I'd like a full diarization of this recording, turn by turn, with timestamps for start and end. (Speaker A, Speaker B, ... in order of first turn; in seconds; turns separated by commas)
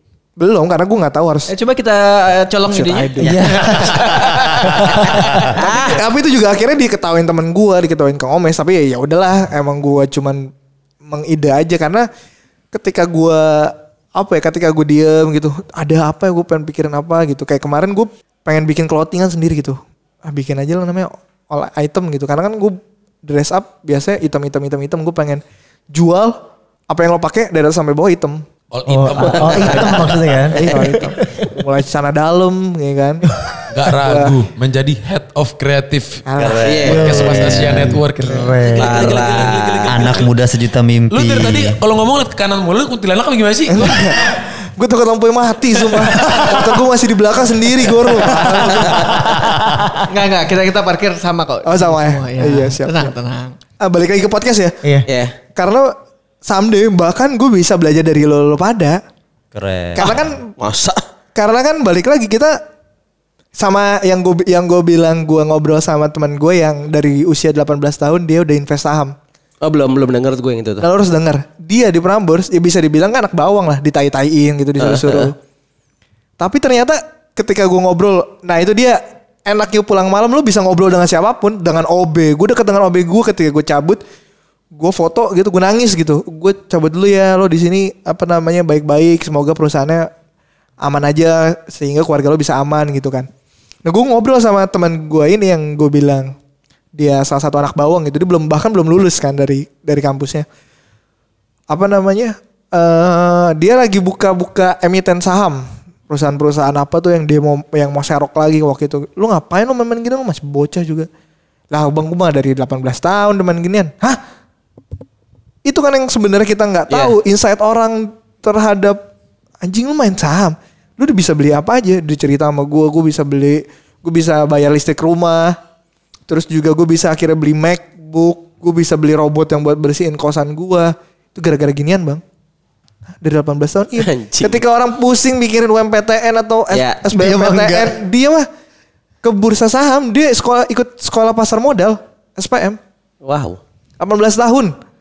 Speaker A: 0.4-1.5, Speaker B: 1.5-5.7, Speaker A: 2.7-3.4, Speaker C: 3.2-5.5, Speaker D: 5.5-6.0, Speaker A: 5.6-10.5, Speaker A: 11.1-12.1, Speaker A: 12.7-28.4, Speaker E: 28.7-30.2, Speaker F: 28.9-31.5, Speaker A: 29.2-29.9, Speaker A: 30.5-33.2, Speaker D: 30.7-30.9, Speaker E: 33.7-40.3, Speaker A: 33.9-34.4, Speaker A: 36.3-37.0, Speaker C: 36.4-38.1, Speaker D: 36.6-37.1, Speaker F: 36.9-39.3, Speaker D: 38.7-40.1, Speaker C: 39.9-41.8, Speaker E: 41.1-44.3, Speaker A: 43.7-49.4, Speaker E: 46.0-46.6, Speaker D: 48.7-49.4, Speaker B: 50.1-53.6, Speaker A: 51.6-53.1, Speaker A: 53.8-54.9, Speaker D: 55.1-55.4, Speaker A: 55.5-59.0, Speaker C: 59.5-60.1, Speaker A: 60.0-60.5, Speaker D: 60.6-61.0, Speaker A: 61.4-62.6, Speaker A: 63.6-69.2, Speaker D: 69.6-70.9, Speaker A: 70.8-75.3, Speaker D: 74.8-75.3, Speaker A: 76.4-84.0, Speaker A: 84.8-90.1, Speaker A: 90.8-93.3, Speaker A: 93.8-96.3, Speaker A: 97.0-100.5, Speaker A: 101.7-111.1, Speaker A: 111.7-114.2, Speaker A: 115.7-119.0, Speaker D: 116.9-117.2, Speaker A: 119.6-125.6, Speaker A: 126.3-132.2, Speaker A: 133.2-138.5, Speaker D: 134.0-134.6, Speaker D: 136.7-137.0, Speaker F: 137.1-138.0, Speaker A: 139.2-142.8, Speaker D: 143.2-143.6, Speaker A: 144.0-144.8